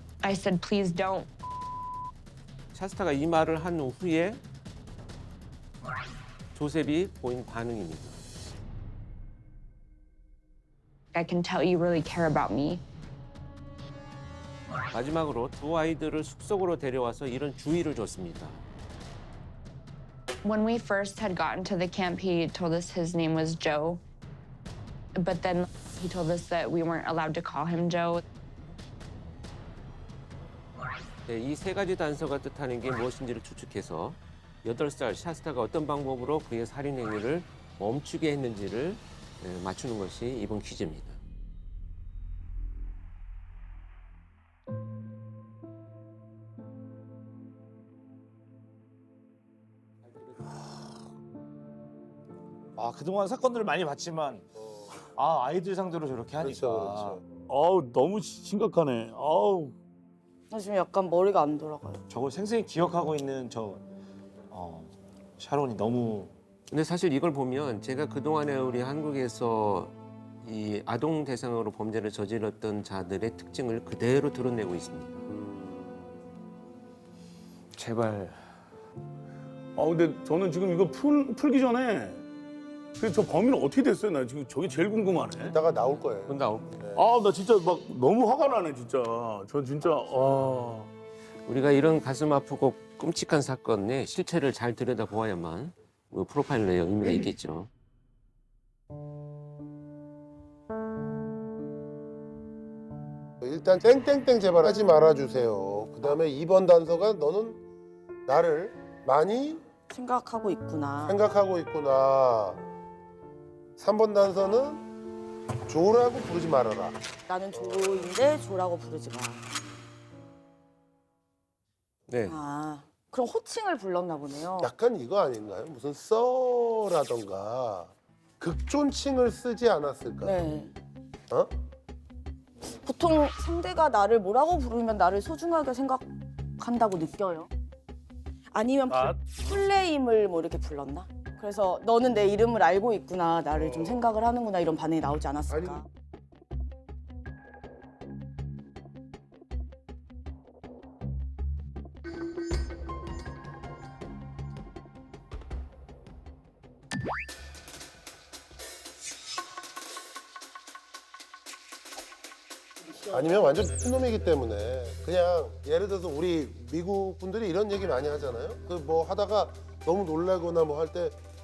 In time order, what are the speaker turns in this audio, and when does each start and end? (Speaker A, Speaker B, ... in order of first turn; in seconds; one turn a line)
Speaker A: 0.2-1.3
Speaker B: 2.7-4.4
Speaker B: 6.5-8.2
Speaker A: 11.1-12.8
Speaker B: 14.9-18.6
Speaker A: 20.4-24.0
Speaker A: 25.2-28.2
Speaker B: 31.3-41.2
Speaker C: 52.7-57.2
Speaker D: 56.4-57.2
Speaker E: 57.5-59.7
Speaker F: 60.5-62.0
Speaker C: 62.1-63.8
Speaker C: 64.5-66.3
Speaker B: 66.7-75.2
Speaker D: 75.2-76.2
Speaker B: 77.7-78.4
Speaker E: 79.8-82.2
Speaker E: 83.0-85.5
Speaker D: 85.4-87.0
Speaker B: 86.3-86.9
Speaker E: 87.0-90.9
Speaker B: 91.4-97.7
Speaker D: 103.4-107.6
Speaker D: 108.2-109.6
Speaker F: 109.9-111.2
Speaker D: 111.0-112.6
Speaker D: 113.8-114.8
Speaker D: 115.7-117.0
Speaker F: 117.3-119.5
Speaker D: 117.5-118.1
Speaker B: 122.1-122.4
Speaker F: 122.2-124.7
Speaker D: 124.6-130.4
Speaker F: 130.2-130.7
Speaker F: 132.7-136.1
Speaker F: 136.6-137.5
Speaker F: 138.5-145.8
Speaker E: 138.9-139.6
Speaker D: 145.5-145.8
Speaker D: 163.1-171.2